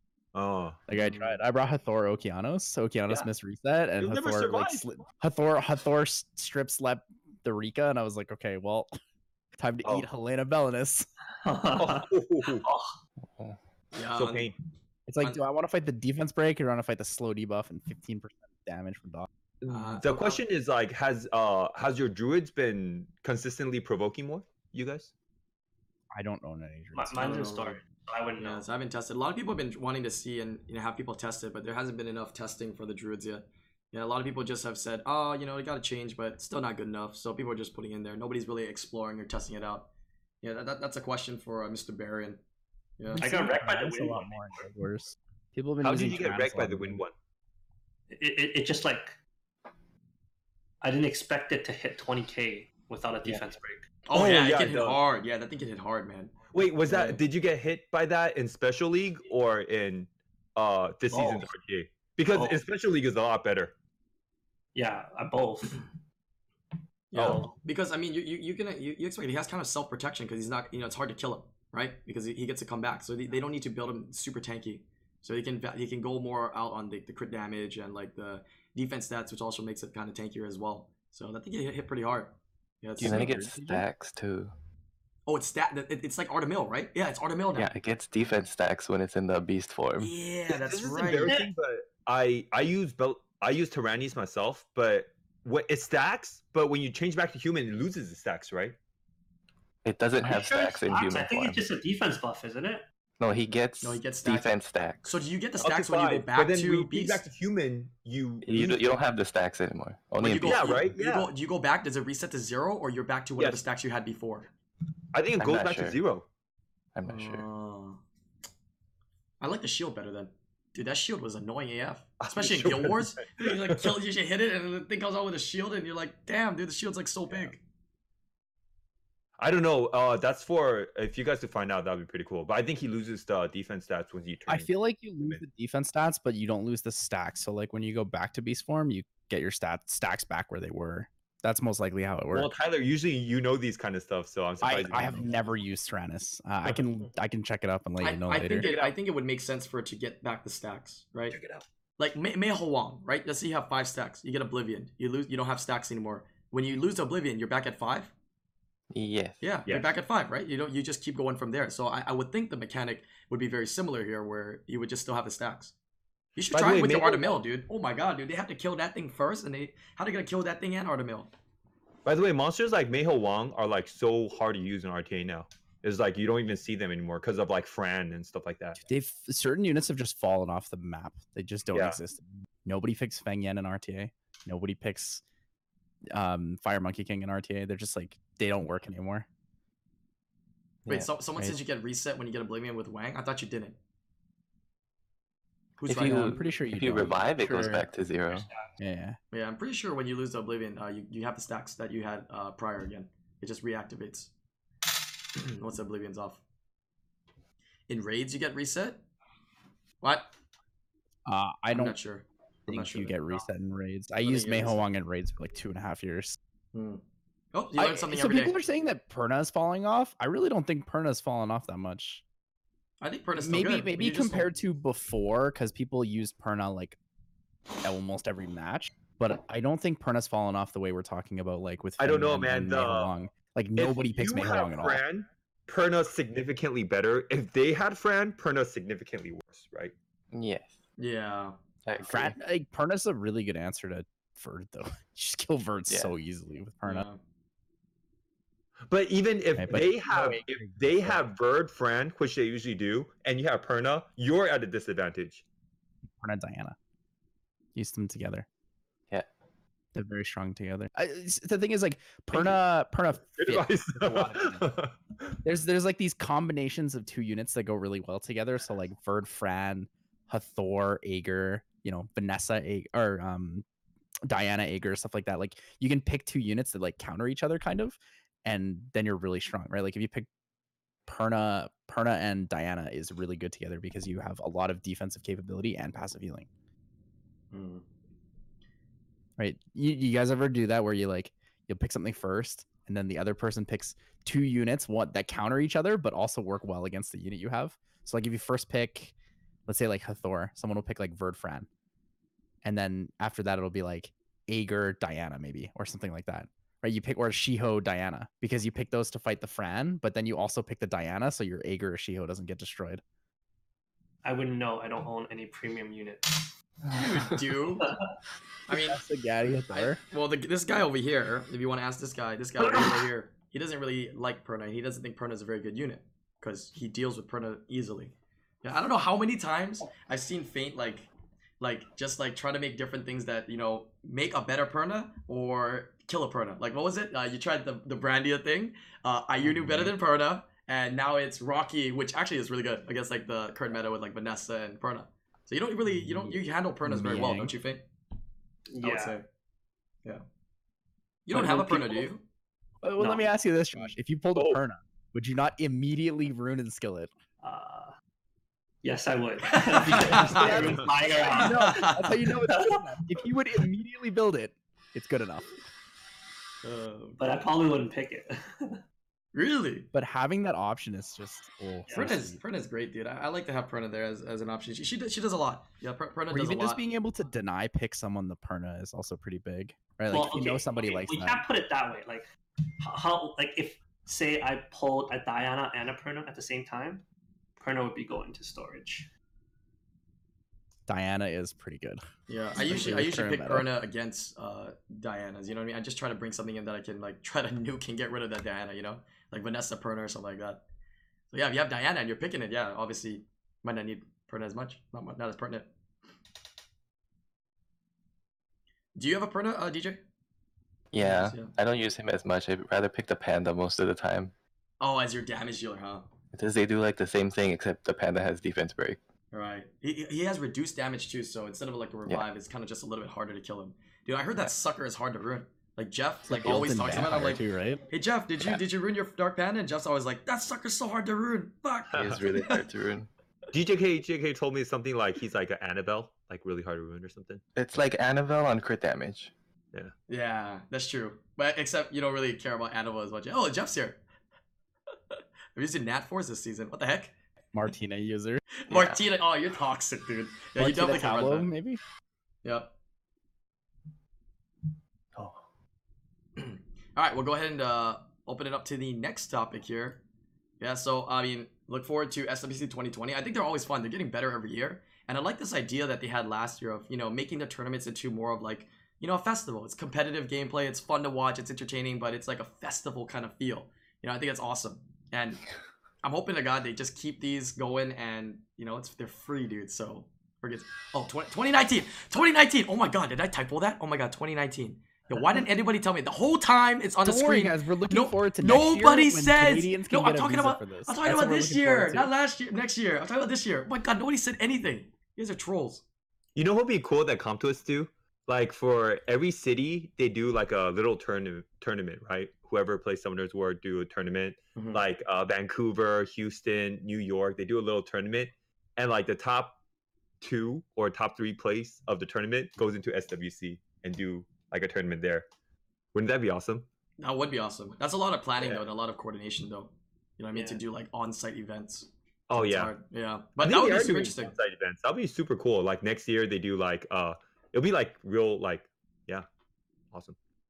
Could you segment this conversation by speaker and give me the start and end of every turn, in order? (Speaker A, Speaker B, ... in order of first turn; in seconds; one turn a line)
Speaker A: 0.3-0.8
Speaker B: 0.9-8.9
Speaker A: 4.0-4.8
Speaker B: 9.6-11.1
Speaker C: 11.4-12.9
Speaker A: 11.8-12.7
Speaker D: 13.9-14.5
Speaker A: 14.1-14.6
Speaker B: 15.1-19.3
Speaker A: 19.6-25.1
Speaker D: 19.7-20.4
Speaker B: 26.1-27.4
Speaker C: 26.9-28.6
Speaker D: 27.2-27.8
Speaker D: 28.4-39.9
Speaker D: 40.4-42.4
Speaker D: 43.0-43.3
Speaker C: 43.1-44.6
Speaker B: 43.2-47.0
Speaker A: 45.8-47.1
Speaker C: 48.1-49.1
Speaker C: 50.8-53.9
Speaker D: 54.1-56.4
Speaker A: 54.1-55.0
Speaker A: 56.5-63.7
Speaker D: 56.9-57.2
Speaker C: 61.1-61.5
Speaker C: 62.3-62.6
Speaker C: 64.8-65.8
Speaker D: 67.1-83.3
Speaker A: 67.2-67.5
Speaker C: 67.2-67.5
Speaker B: 83.0-83.9
Speaker E: 83.0-84.5
Speaker D: 85.3-87.7
Speaker E: 87.6-90.1
Speaker D: 90.0-91.4
Speaker A: 90.5-98.8
Speaker E: 99.8-101.6
Speaker C: 100.2-102.9
Speaker E: 103.2-105.2
Speaker D: 103.8-107.2
Speaker A: 105.6-108.9
Speaker E: 108.4-110.8
Speaker D: 110.2-114.5
Speaker A: 110.4-111.3
Speaker A: 115.1-116.2
Speaker E: 115.4-116.0
Speaker E: 117.0-117.5
Speaker D: 117.0-118.0
Speaker D: 119.4-127.6
Speaker A: 122.2-123.8
Speaker A: 129.4-134.7
Speaker B: 134.5-142.5
Speaker A: 142.3-145.3
Speaker B: 144.6-148.7
Speaker D: 148.0-151.4
Speaker A: 148.5-149.0
Speaker C: 151.4-151.6
Speaker D: 152.0-158.1
Speaker E: 158.9-159.4
Speaker D: 159.4-165.7
Speaker D: 166.4-171.3
Speaker A: 166.5-167.4
Speaker A: 172.1-178.8
Speaker B: 178.9-185.2
Speaker A: 181.7-182.0
Speaker B: 186.1-189.3
Speaker D: 190.9-193.8
Speaker D: 195.8-196.4
Speaker E: 195.9-198.5
Speaker B: 196.0-197.9
Speaker B: 198.8-199.2
Speaker D: 199.3-204.3
Speaker D: 205.3-206.4
Speaker D: 207.9-209.0
Speaker D: 210.0-210.3
Speaker B: 211.3-212.0
Speaker D: 211.7-213.4
Speaker B: 212.7-216.4
Speaker D: 214.2-214.8
Speaker D: 216.7-217.0
Speaker D: 217.5-218.6
Speaker B: 217.8-222.2
Speaker D: 223.0-224.5
Speaker B: 223.4-227.0
Speaker B: 227.8-235.0
Speaker A: 232.0-233.1
Speaker A: 233.8-239.9
Speaker E: 240.3-240.7
Speaker D: 241.0-241.6
Speaker E: 241.8-242.4
Speaker B: 242.0-247.1
Speaker D: 246.8-247.2
Speaker A: 248.9-255.4
Speaker B: 249.6-251.2
Speaker B: 256.2-256.8
Speaker B: 257.8-258.5
Speaker B: 259.9-264.7
Speaker A: 263.4-265.4
Speaker B: 265.4-273.6
Speaker B: 274.3-280.3
Speaker B: 281.1-286.5
Speaker D: 287.5-287.8
Speaker B: 289.4-299.1
Speaker B: 299.7-301.7
Speaker B: 302.6-313.0
Speaker C: 314.2-316.5
Speaker D: 316.9-317.9
Speaker D: 318.7-319.0
Speaker B: 318.7-320.0
Speaker D: 319.7-331.1
Speaker C: 322.6-323.1
Speaker D: 331.6-347.8
Speaker B: 339.5-339.9
Speaker B: 346.0-346.3
Speaker B: 346.9-347.5
Speaker C: 348.7-349.2
Speaker D: 348.8-349.3
Speaker D: 351.3-352.2
Speaker B: 351.3-352.1
Speaker B: 352.8-357.1
Speaker A: 354.4-354.6
Speaker C: 357.4-357.9
Speaker C: 358.8-363.2
Speaker D: 359.5-362.2
Speaker B: 359.8-365.6
Speaker D: 366.6-367.2
Speaker C: 367.2-368.8
Speaker D: 369.3-369.9
Speaker B: 369.9-372.4
Speaker D: 371.9-376.8
Speaker B: 376.3-381.4
Speaker C: 380.1-382.3
Speaker C: 382.8-387.0
Speaker C: 387.6-389.1
Speaker B: 390.9-392.0
Speaker D: 392.3-400.6
Speaker B: 392.6-393.7
Speaker D: 401.3-405.7
Speaker D: 408.9-410.0
Speaker E: 410.9-414.3
Speaker D: 411.0-411.5
Speaker D: 414.8-416.1
Speaker E: 416.3-419.0
Speaker D: 419.3-432.6
Speaker B: 426.3-427.8
Speaker E: 431.9-433.1
Speaker A: 433.5-437.4
Speaker E: 437.6-439.3
Speaker D: 440.1-444.0
Speaker D: 445.6-447.1
Speaker B: 447.5-448.4
Speaker D: 448.6-451.5
Speaker E: 448.7-449.0
Speaker B: 450.6-451.8
Speaker D: 452.4-452.7
Speaker D: 456.4-460.0
Speaker D: 460.6-475.4
Speaker D: 476.0-495.8
Speaker B: 487.0-492.1
Speaker A: 496.4-509.6
Speaker D: 504.6-504.8
Speaker A: 510.2-515.3
Speaker A: 515.9-516.7
Speaker D: 517.0-524.3
Speaker C: 520.3-520.6
Speaker A: 522.3-522.7
Speaker A: 523.4-529.3